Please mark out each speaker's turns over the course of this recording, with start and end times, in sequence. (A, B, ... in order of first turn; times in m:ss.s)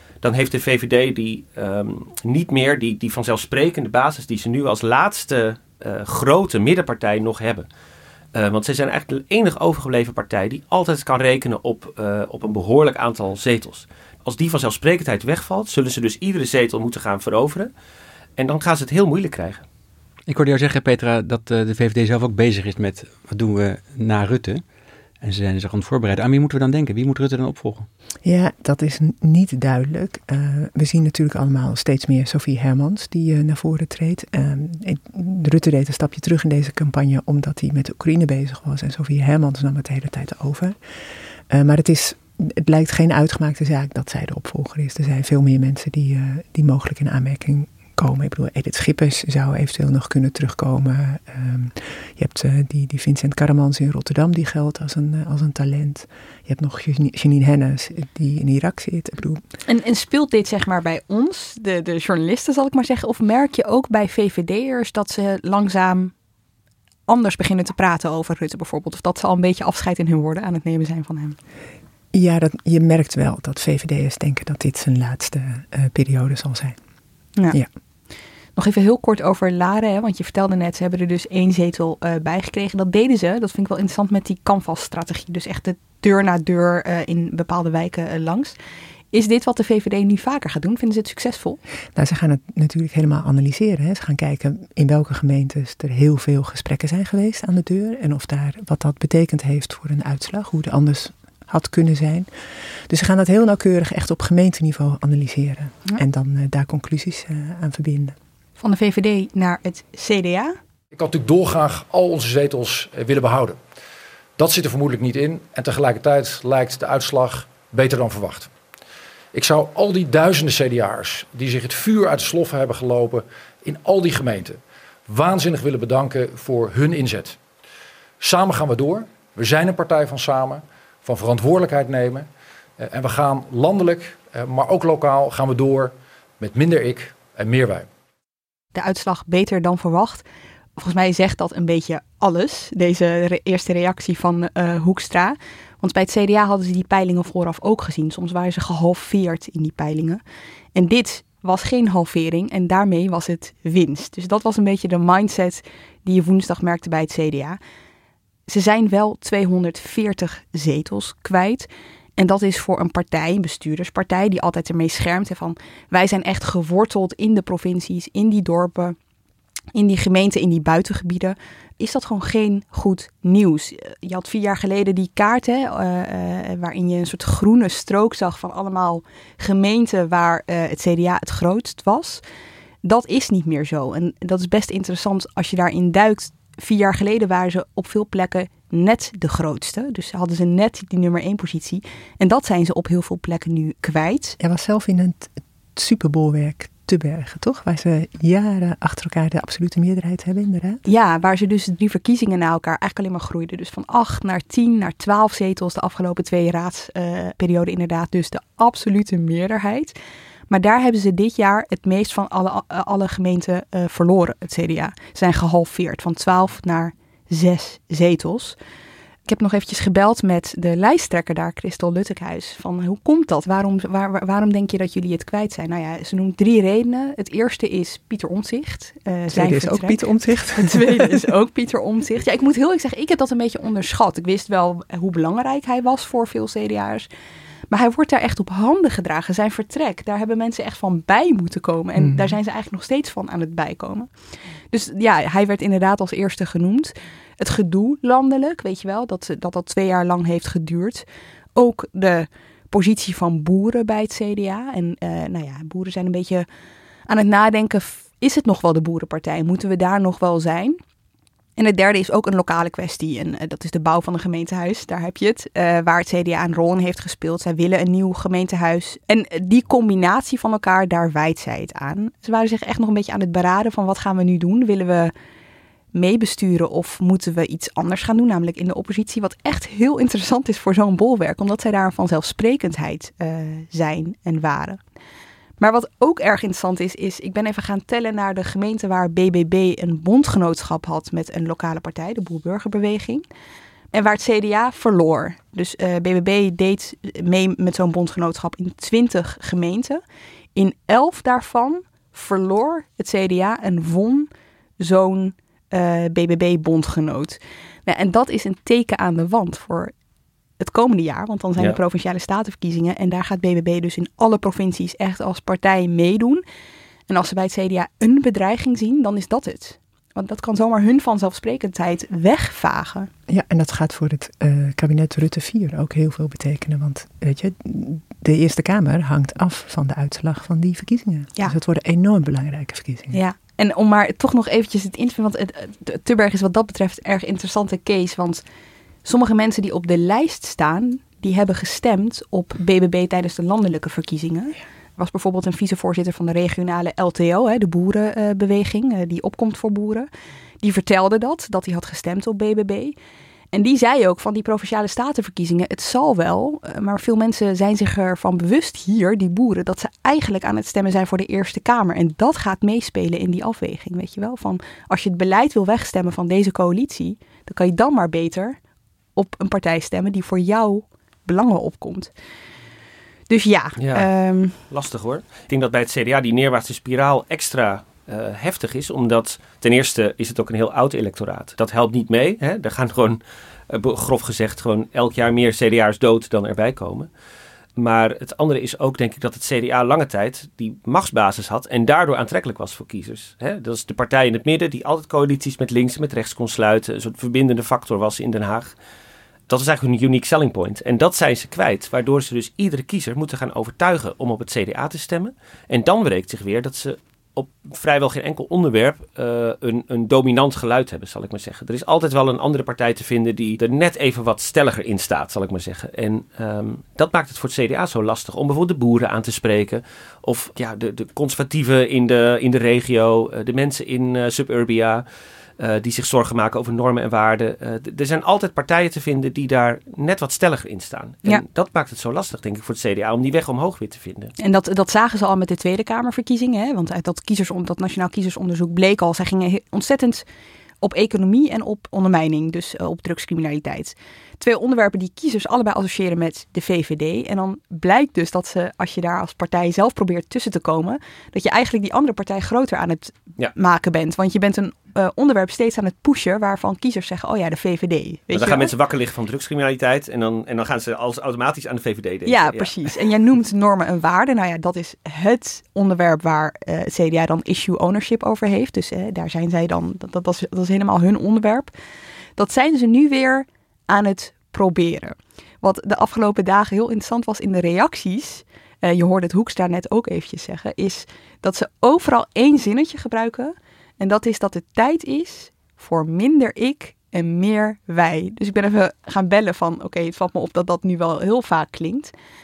0:00.2-0:07.7 A
0:08.4-0:17.7 A
0:18.4-0:19.6 A
0:20.3-0:24.6 B
0:25.2-0:27.9 B
0:28.2-0:40.8 C
0:41.5-0:59.4 C
0:59.7-1:06.1 D
1:07.1-1:11.4 D
1:12.1-1:16.8 C
1:18.6-1:28.6 D
1:29.1-1:31.6 D
1:32.0-1:42.3 C
1:42.9-1:48.2 C
1:48.6-1:50.6 D
1:50.9-1:53.6 E
1:54.4-1:58.5 E
1:59.3-2:07.4 E
2:08.2-2:12.3 E
2:12.8-2:17.9 E
2:18.8-2:20.3 D
2:20.8-2:30.2 D
2:30.8-2:37.6 D
2:38.5-2:49.0 D
2:49.7-3:02.2 D
3:02.8-3:14.4 D
3:14.4-3:20.8 C
3:20.9-3:30.0 D
3:30.5-3:38.6 D
3:39.3-3:57.1 D
3:49.3-3:51.2 C
3:57.7-4:04.1 D
4:02.0-4:02.3 C
4:04.7-4:16.5 D
4:17.1-4:20.8 D
4:21.6-4:35.1 D
4:36.0-4:44.8 D
4:45.6-4:53.2 D
4:53.9-5:00.0 D
5:00.6-5:04.3 D
5:04.8-5:09.9 D
5:10.6-5:16.4 D
5:17.1-5:23.1 D
5:23.3-5:33.2 C
5:33.1-5:38.4 D
5:39.0-5:50.1 D
5:50.6-5:53.0 D
5:53.5-6:08.6 D
6:09.2-6:12.1 D
6:13.3-6:14.6 D
6:13.8-6:14.1 A
6:14.7-6:27.1 A
6:27.8-6:38.7 A
6:39.5-7:05.0 A
7:05.6-7:14.3 A
7:14.4-7:20.3 D
7:20.8-7:38.7 D
7:38.3-7:42.8 A
7:42.3-7:51.7 D
7:52.4-8:12.1 D